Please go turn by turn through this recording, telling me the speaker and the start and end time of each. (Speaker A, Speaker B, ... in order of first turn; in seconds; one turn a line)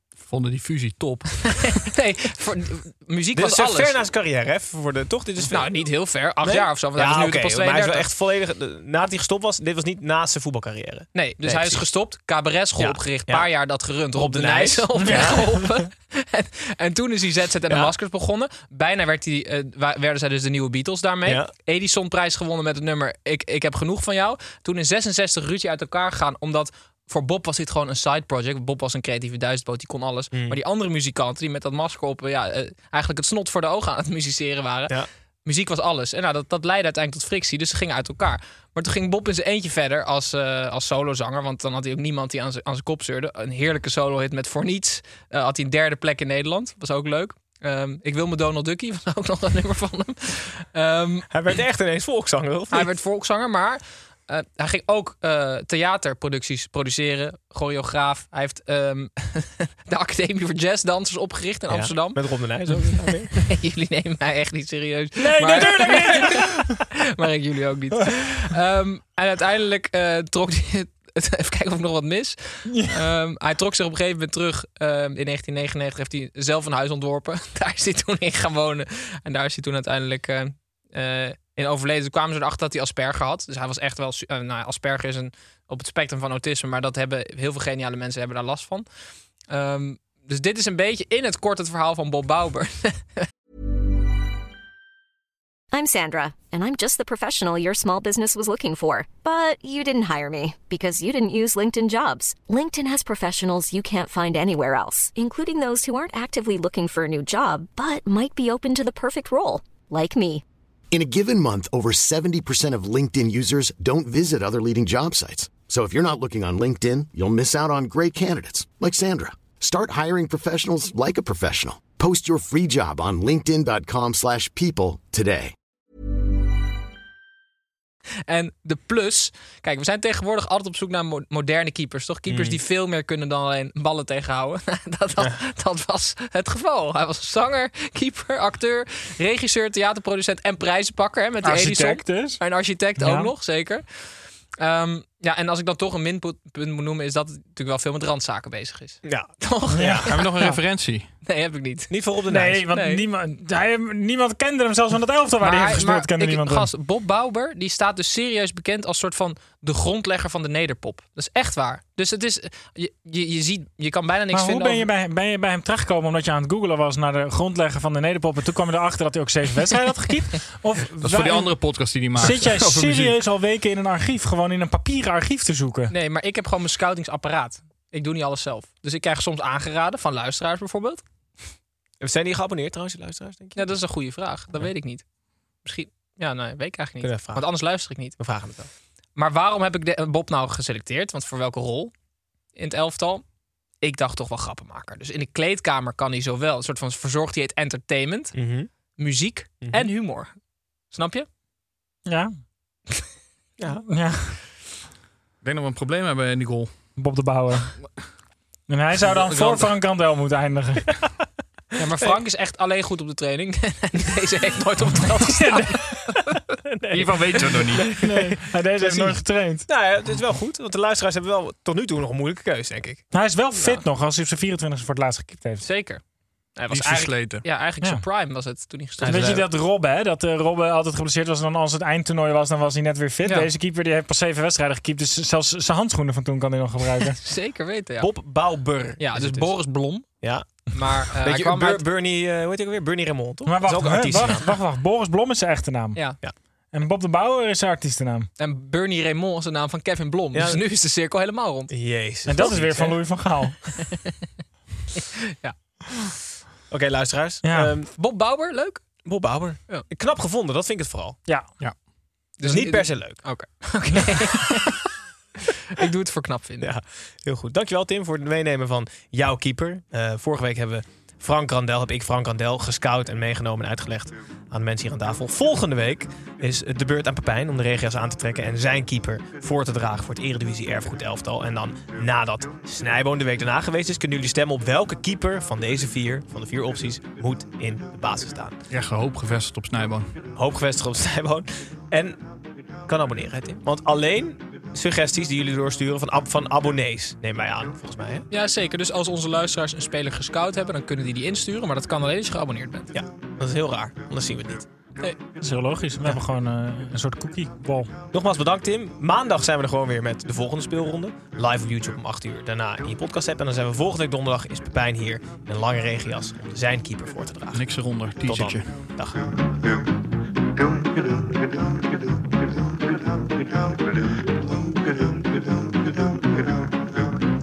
Speaker A: 0.2-1.4
Speaker B: 1.4-3.9
Speaker C: 3.3-5.7
Speaker B: 5.5-8.1
Speaker C: 6.4-11.9
Speaker B: 11.1-51.3
Speaker C: 12.8-13.5
Speaker C: 14.1-15.4
Speaker C: 21.2-21.5
Speaker C: 30.3-30.6
Speaker C: 51.3-52.9
Speaker B: 52.7-88.9
Speaker C: 61.7-63.3
Speaker D: 65.2-66.6
Speaker D: 72.7-72.9
Speaker B: 89.5-93.2
Speaker E: 95.7-110.4
Speaker F: 110.9-125.5
Speaker B: 128.3-143.8
Speaker C: 132.3-132.6
Speaker D: 141.4-142.4
Speaker D: 143.0-143.3
Speaker B: 144.6-150.5
Speaker C: 149.0-149.3
Speaker D: 149.7-150.6
Speaker A: 150.1-151.1
Speaker B: 151.2-151.9
Speaker C: 151.9-152.6
Speaker D: 152.3-156.7
Speaker B: 152.7-153.0
Speaker B: 155.4-164.9
Speaker D: 164.3-171.6
Speaker A: 171.0-173.2
Speaker D: 172.1-175.9
Speaker B: 175.9-181.0
Speaker C: 182.0-183.8
Speaker B: 183.6-185.0
Speaker B: 185.6-188.2
Speaker C: 187.0-188.7
Speaker B: 189.2-191.9
Speaker B: 192.5-193.2
Speaker B: 193.8-198.3
Speaker C: 198.3-198.7
Speaker B: 199.0-200.3
Speaker C: 199.6-199.9
Speaker B: 200.9-201.3
Speaker C: 203.6-203.8
Speaker D: 203.8-204.4
Speaker A: 205.4-206.7
Speaker D: 207.0-207.7
Speaker D: 208.7-211.0
Speaker B: 209.2-209.7
Speaker B: 211.8-216.3
Speaker D: 215.4-215.9
Speaker C: 216.7-223.0
Speaker A: 216.9-217.9
Speaker D: 217.9-219.7
Speaker D: 223.1-225.7
Speaker B: 225.6-226.0
Speaker B: 226.6-229.5
Speaker A: 226.7-227.4
Speaker C: 229.0-229.3
Speaker D: 229.0-237.2
Speaker B: 237.2-238.1
Speaker C: 238.0-239.6
Speaker B: 239.0-240.1
Speaker C: 240.2-240.4
Speaker B: 240.7-241.8
Speaker C: 241.2-244.5
Speaker D: 243.4-246.1
Speaker D: 246.7-248.3
Speaker B: 248.4-251.7
Speaker C: 250.3-250.6
Speaker C: 251.7-252.9
Speaker D: 252.2-253.6
Speaker B: 252.4-253.0
Speaker C: 256.7-257.9
Speaker D: 257.4-257.7
Speaker B: 257.9-258.8
Speaker C: 259.1-261.2
Speaker D: 261.2-261.6
Speaker B: 262.4-264.8
Speaker C: 262.4-263.3
Speaker B: 265.7-266.7
Speaker C: 266.6-288.6
Speaker A: 288.7-290.1
Speaker C: 290.4-292.2
Speaker C: 292.9-298.2
Speaker B: 298.3-302.9
Speaker C: 302.9-304.6
Speaker D: 305.4-307.9
Speaker C: 308.1-317.6
Speaker A: 317.5-318.6
Speaker C: 318.2-319.3